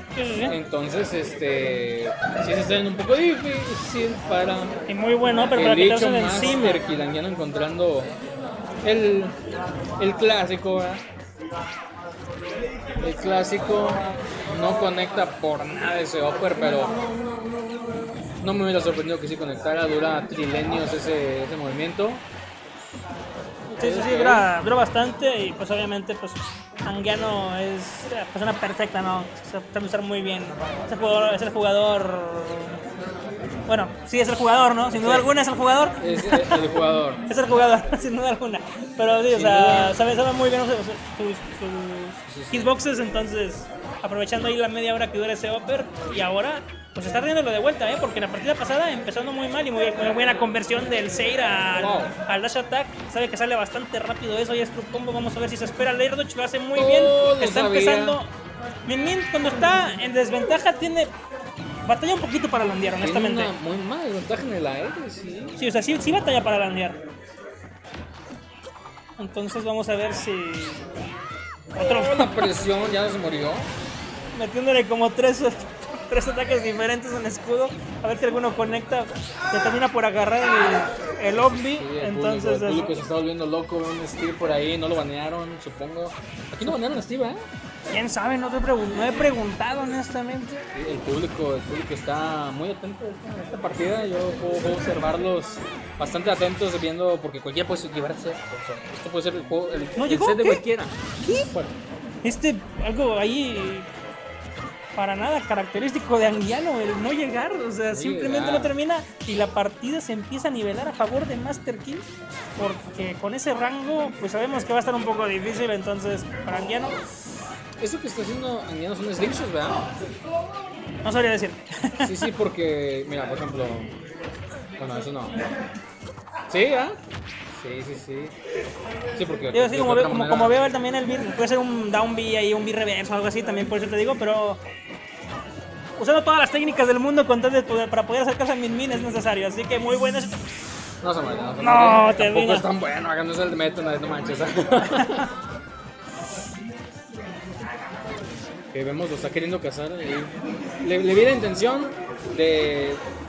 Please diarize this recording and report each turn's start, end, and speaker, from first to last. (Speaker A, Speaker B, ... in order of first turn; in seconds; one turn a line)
Speaker A: 0.1-0.6
Speaker B: 0.4-4.8
Speaker A: 4.9-6.8
Speaker B: 5.4-8.1
Speaker B: 8.8-9.4
Speaker B: 10.0-11.0
Speaker B: 13.0-16.9
Speaker B: 18.4-22.2
Speaker A: 23.7-32.8
Speaker B: 23.8-24.5
Speaker A: 33.7-36.6
Speaker B: 34.9-35.3
Speaker B: 36.0-37.2
Speaker A: 37.3-58.3
Speaker B: 39.3-40.0
Speaker B: 42.3-42.7
Speaker B: 51.8-52.1
Speaker B: 56.7-58.2
Speaker A: 58.9-61.1
Speaker A: 61.9-63.5
Speaker B: 63.0-65.6
Speaker A: 65.6-67.0
Speaker A: 69.2-70.9
Speaker A: 71.8-72.5
Speaker B: 71.8-73.7
Speaker A: 74.3-82.9
Speaker B: 81.4-87.4
Speaker A: 87.9-90.6
Speaker B: 90.7-101.7
Speaker A: 100.0-100.6
Speaker A: 101.2-101.5
Speaker A: 102.2-103.9
Speaker A: 105.0-112.1
Speaker B: 107.9-108.8
Speaker A: 112.6-116.9
Speaker B: 117.8-119.8
Speaker A: 121.0-122.3
Speaker B: 122.0-123.9
Speaker B: 124.8-125.4
Speaker B: 126.5-127.0
Speaker B: 127.5-128.3
Speaker B: 129.2-130.7
Speaker A: 129.5-134.6
Speaker A: 136.0-140.4
Speaker B: 141.0-145.3
Speaker A: 141.6-142.7
Speaker A: 144.9-145.2
Speaker B: 148.7-153.0